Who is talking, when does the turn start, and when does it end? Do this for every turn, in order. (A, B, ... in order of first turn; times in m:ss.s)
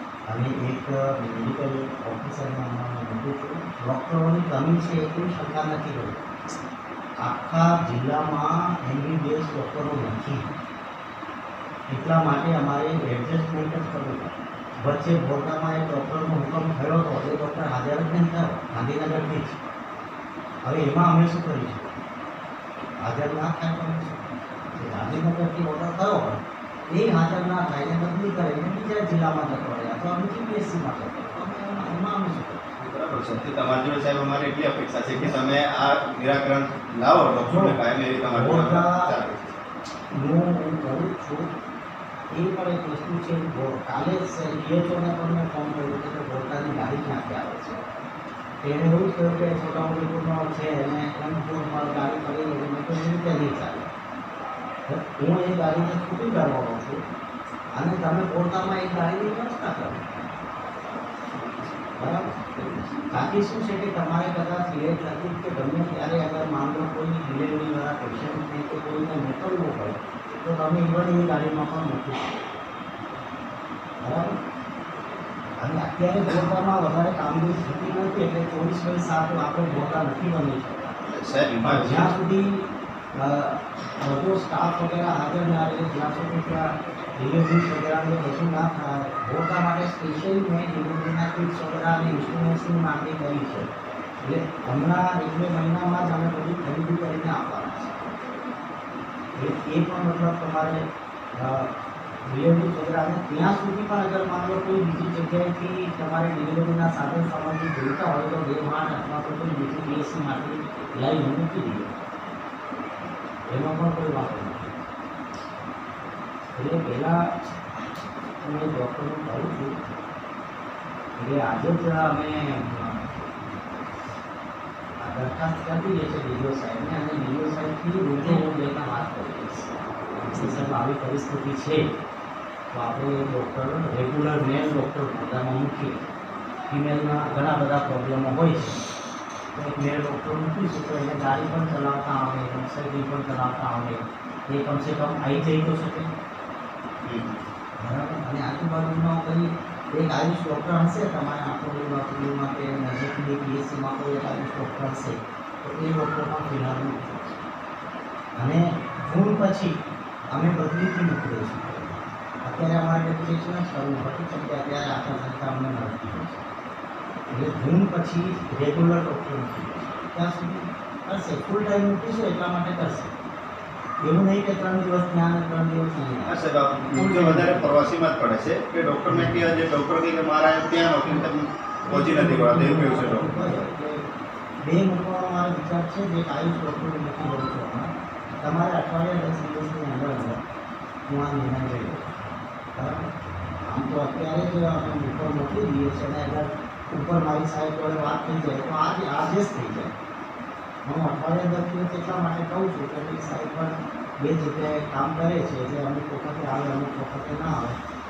0:00.3-0:06.3 A
0:07.2-0:10.5 A
0:11.9-0:19.6 A
0:20.6-0:22.0 A
0:23.0-0:32.7 A
0:32.8-0:39.6 B
0:37.4-0:39.1 A
0:40.1-0:41.5 A
0:42.3-0:47.9 A
0:48.6-0:53.9 A
0:54.9-0:57.0 A
0:57.7-1:00.2 A
1:02.0-1:12.3 A
1:14.0-1:14.4 A
1:15.6-1:21.0 A
1:16.2-1:16.5 B
1:21.0-1:22.1 B
1:21.6-1:33.7 A
1:34.2-1:38.1 A
1:39.4-1:41.7 A
1:42.2-1:51.9 A
1:53.5-1:54.8 A
1:56.5-1:57.3 A
1:58.4-1:59.8 A
2:01.2-2:03.7 A
2:05.0-2:11.9 A
2:12.7-2:16.0 A
2:16.7-2:18.8 A
2:19.5-2:26.1 A
2:27.0-2:27.4 B
2:27.8-2:37.4 A
2:38.4-2:39.7 A
2:40.3-2:46.4 A
2:47.3-2:53.1 A
2:54.0-2:56.4 A
2:56.2-3:03.5 B
2:56.9-2:57.8 A
2:59.1-2:59.6 A
3:01.8-3:04.0 A
3:04.6-3:10.4 A
3:11.1-3:12.1 A
3:12.7-3:13.1 A
3:13.6-3:20.0 A
3:20.8-3:27.8 A